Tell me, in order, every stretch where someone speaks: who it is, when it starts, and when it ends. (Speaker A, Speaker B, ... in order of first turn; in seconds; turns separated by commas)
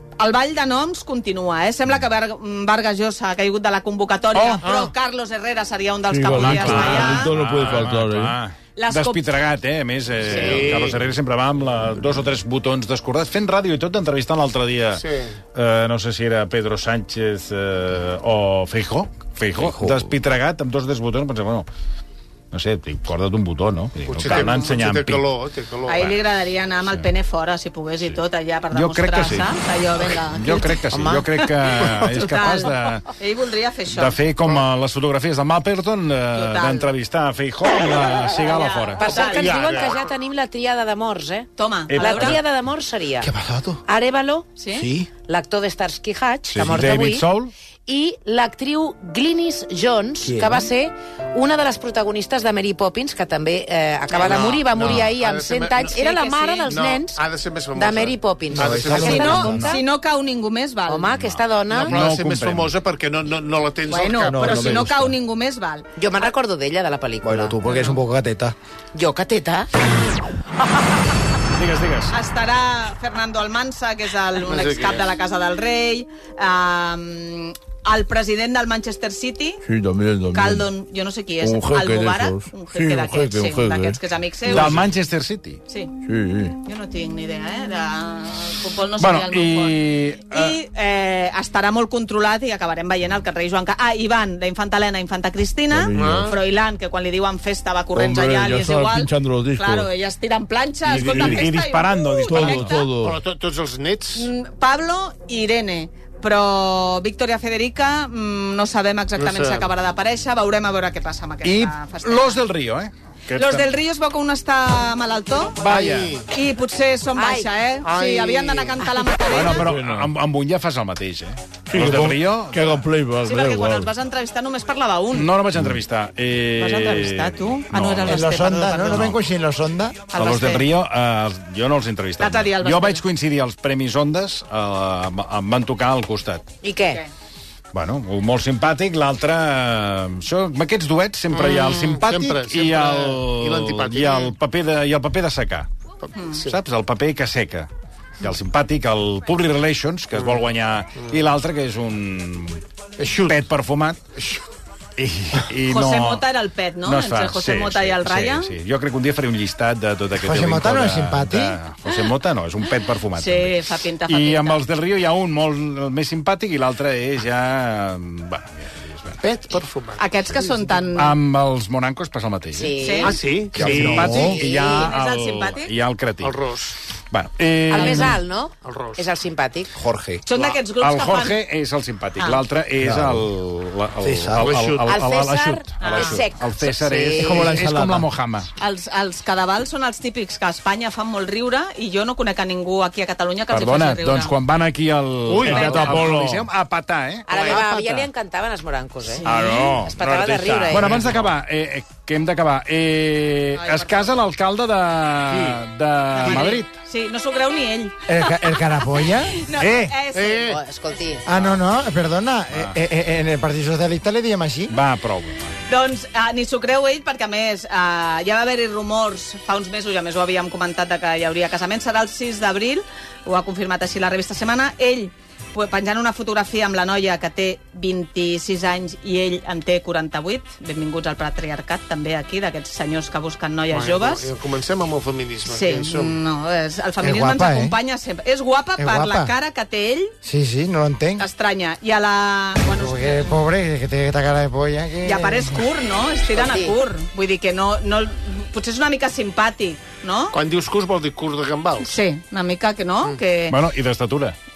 Speaker A: 0.2-7.3, Speaker B: 4.5-4.9, Speaker C: 6.1-8.3, Speaker D: 6.3-15.0, Speaker A: 8.8-9.2, Speaker A: 10.2-10.9, Speaker B: 10.2-11.1, Speaker B: 14.9-15.3, Speaker D: 15.5-21.6, Speaker E: 19.6-20.1, Speaker D: 22.5-25.2, Speaker B: 24.1-26.1, Speaker A: 24.3-24.7, Speaker A: 25.9-34.2, Speaker D: 28.7-33.0, Speaker F: 30.9-31.3, Speaker D: 33.9-39.1, Speaker A: 36.3-36.9, Speaker A: 38.1-39.6, Speaker F: 39.0-43.3, Speaker B: 39.3-40.0, Speaker A: 41.6-42.4, Speaker D: 41.9-42.4, Speaker E: 43.2-43.8, Speaker F: 43.9-44.5, Speaker A: 44.6-44.9, Speaker E: 44.8-45.1, Speaker F: 45.1-47.3, Speaker D: 46.5-47.5, Speaker F: 47.9-57.2, Speaker E: 50.2-50.7, Speaker B: 54.1-56.0, Speaker A: 54.1-54.6, Speaker D: 54.8-55.1, Speaker A: 55.8-56.8, Speaker B: 56.7-59.6, Speaker F: 57.7-59.8, Speaker E: 58.5-59.7, Speaker A: 58.9-61.1, Speaker F: 60.9-62.0, Speaker D: 61.1-62.7, Speaker B: 61.7-64.9, Speaker A: 63.9-66.3, Speaker E: 64.3-65.0, Speaker F: 66.0-67.8, Speaker E: 67.2-68.5, Speaker A: 67.7-68.0, Speaker F: 68.9-69.7, Speaker D: 71.5-72.1, Speaker A: 72.1-79.6, Speaker B: 74.4-75.1, Speaker C: 79.6-80.7, Speaker A: 80.3-84.9, Speaker C: 81.4-84.9, Speaker D: 84.5-85.6, Speaker C: 86.0-86.5, Speaker A: 86.6-102.9, Speaker D: 89.0-90.6, Speaker C: 95.7-96.4, Speaker B: 95.9-96.4, Speaker C: 97.9-99.9, Speaker D: 100.8-102.8, Speaker C: 101.0-101.5, Speaker C: 102.3-103.2, Speaker B: 103.0-104.3, Speaker A: 104.1-112.5, Speaker B: 109.2-109.7, Speaker D: 111.4-113.7, Speaker A: 113.3-115.7, Speaker D: 115.6-116.2, Speaker B: 115.7-116.2, Speaker A: 116.3-119.7, Speaker F: 117.1-117.5, Speaker B: 117.8-118.8, Speaker D: 119.2-122.8, Speaker C: 119.5-120.1, Speaker C: 121.7-123.9, Speaker A: 123.2-125.3, Speaker D: 125.1-128.3, Speaker A: 126.6-129.1, Speaker E: 128.0-130.1, Speaker D: 128.9-129.1, Speaker A: 130.1-130.7, Speaker D: 130.1-136.5, Speaker A: 132.2-133.0, Speaker F: 136.6-137.0, Speaker D: 137.7-145.7, Speaker B: 141.3-144.3, Speaker B: 146.0-146.6, Speaker A: 146.2-146.4, Speaker D: 146.4-147.7, Speaker D: 148.2-152.6, Speaker B: 153.0-153.4, Speaker D: 153.2-154.0, Speaker B: 154.2-154.4, Speaker D: 155.0-156.2, Speaker A: 155.7-158.5, Speaker D: 156.8-169.2, Speaker E: 160.2-161.6, Speaker A: 163.1-164.6, Speaker B: 169.2-170.8, Speaker A: 170.0-171.2, Speaker D: 170.9-172.8, Speaker F: 172.5-174.9, Speaker A: 172.8-173.7, Speaker B: 173.0-174.2, Speaker D: 173.5-176.4, Speaker E: 173.6-174.3, Speaker A: 174.2-175.7, Speaker B: 176.2-176.8, Speaker D: 177.1-178.2, Speaker F: 177.7-179.8, Speaker B: 178.6-179.0, Speaker A: 180.2-181.4, Speaker B: 180.3-180.6, Speaker D: 180.7-188.5, Speaker E: 182.8-183.3, Speaker E: 184.0-184.6, Speaker B: 184.3-185.0, Speaker F: 184.7-187.6, Speaker A: 185.8-186.2, Speaker E: 187.2-188.1, Speaker A: 188.6-194.3, Speaker D: 193.5-197.6, Speaker B: 195.3-196.2, Speaker A: 195.4-196.0, Speaker C: 195.8-196.5, Speaker F: 197.2-201.1, Speaker B: 197.3-198.0, Speaker A: 199.2-199.8, Speaker D: 199.2-206.8, Speaker B: 200.8-201.3, Speaker A: 203.5-204.3, Speaker B: 205.2-205.6, Speaker A: 206.2-210.6, Speaker B: 206.2-206.6, Speaker E: 208.1-209.4, Speaker D: 209.6-209.9, Speaker B: 210.1-210.6, Speaker F: 210.4-211.3, Speaker E: 211.2-214.7, Speaker D: 214.7-215.5, Speaker A: 215.7-234.3, Speaker B: 233.7-236.2, Speaker A: 235.5-240.1, Speaker E: 237.0-237.8, Speaker E: 238.8-239.3, Speaker E: 240.2-241.2, Speaker A: 241.2-243.4, Speaker E: 242.6-245.6, Speaker A: 245.0-250.4, Speaker F: 246.3-246.7, Speaker B: 250.3-251.9, Speaker A: 251.8-253.6, Speaker D: 253.5-254.3